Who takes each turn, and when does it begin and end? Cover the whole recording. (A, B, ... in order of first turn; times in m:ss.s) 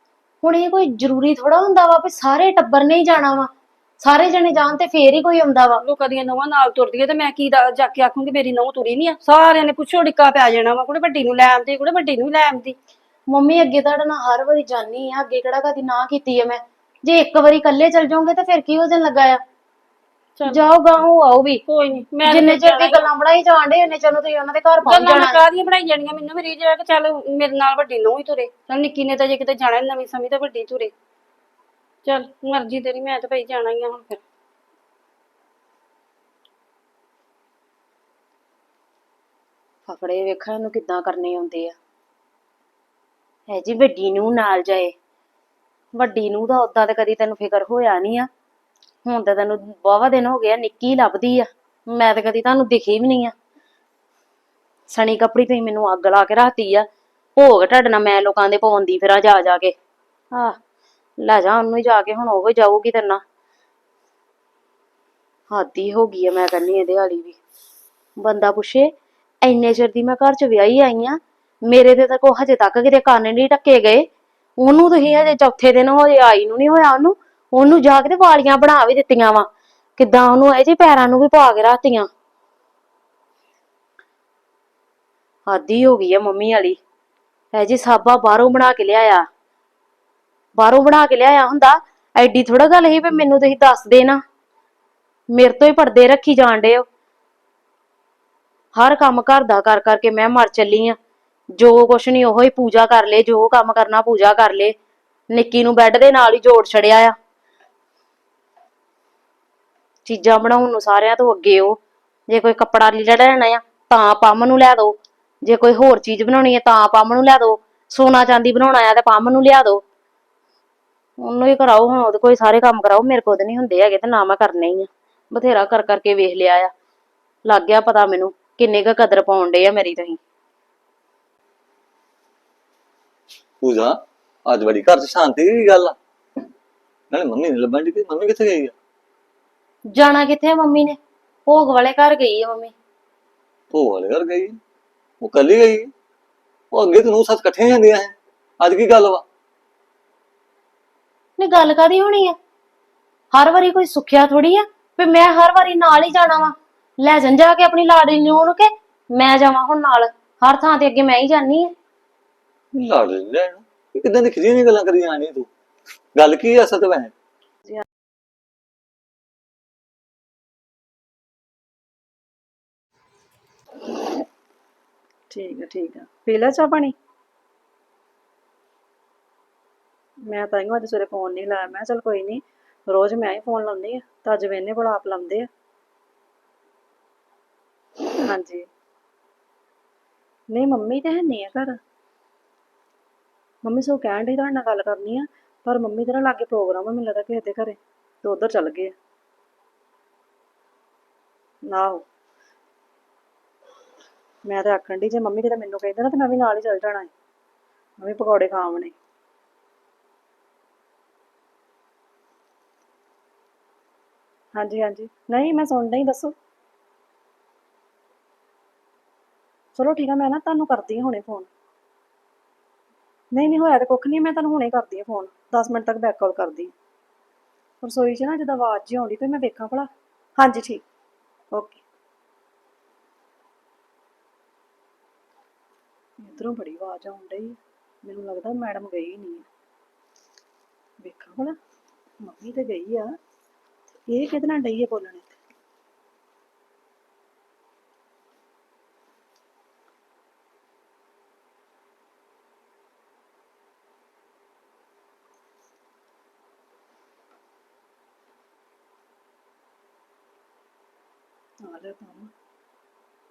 0:00.4-0:05.8 A
0:05.8-0:12.8 B
0:13.3-0:19.4 A
0:20.5-0:21.6 A
0:21.6-0:23.1 B
0:22.2-0:25.4 A
0:24.8-0:30.9 B
0:32.0-0:34.2 B
0:39.8-0:41.8 A
0:43.5-0:44.9 A
0:45.9-0:48.3 A
0:49.0-0:53.3 A
0:54.9-0:59.7 A
1:00.3-1:00.6 A
1:01.2-1:03.2 A
1:05.5-1:07.4 A
1:08.2-1:08.9 A
1:09.4-1:14.0 A
1:14.6-1:22.1 A
1:25.5-1:26.8 A
1:27.5-1:29.2 A
1:30.6-1:34.2 A
1:35.3-1:36.8 A
1:38.7-1:41.0 A
1:41.6-1:44.7 A
1:45.3-1:47.1 A
1:50.0-1:51.8 A
1:52.3-1:59.8 A
2:01.2-2:06.7 A
2:07.4-2:10.2 A
2:13.6-2:16.0 C
2:17.1-2:18.7 C
2:19.9-2:22.7 A
2:23.7-2:24.6 C
2:25.2-2:25.9 C
2:26.7-2:29.2 C
2:31.4-2:32.4 A
2:33.3-2:41.7 A
2:42.7-2:45.5 C
2:46.2-2:47.1 C
2:55.3-2:56.9 D
3:00.3-3:05.5 D
3:08.2-3:08.7 D
3:10.5-3:11.8 D
3:13.6-3:18.9 D
3:21.7-3:22.0 D
3:24.4-3:27.1 D
3:28.0-3:28.9 D
3:34.6-3:36.3 D
3:39.8-3:41.5 D
3:43.3-3:46.7 D
3:47.8-3:50.8 D
3:51.5-3:51.8 D
3:56.2-3:59.4 D
4:01.0-4:01.6 D
4:02.2-4:03.1 D
4:04.1-4:05.4 D
4:21.6-4:22.3 D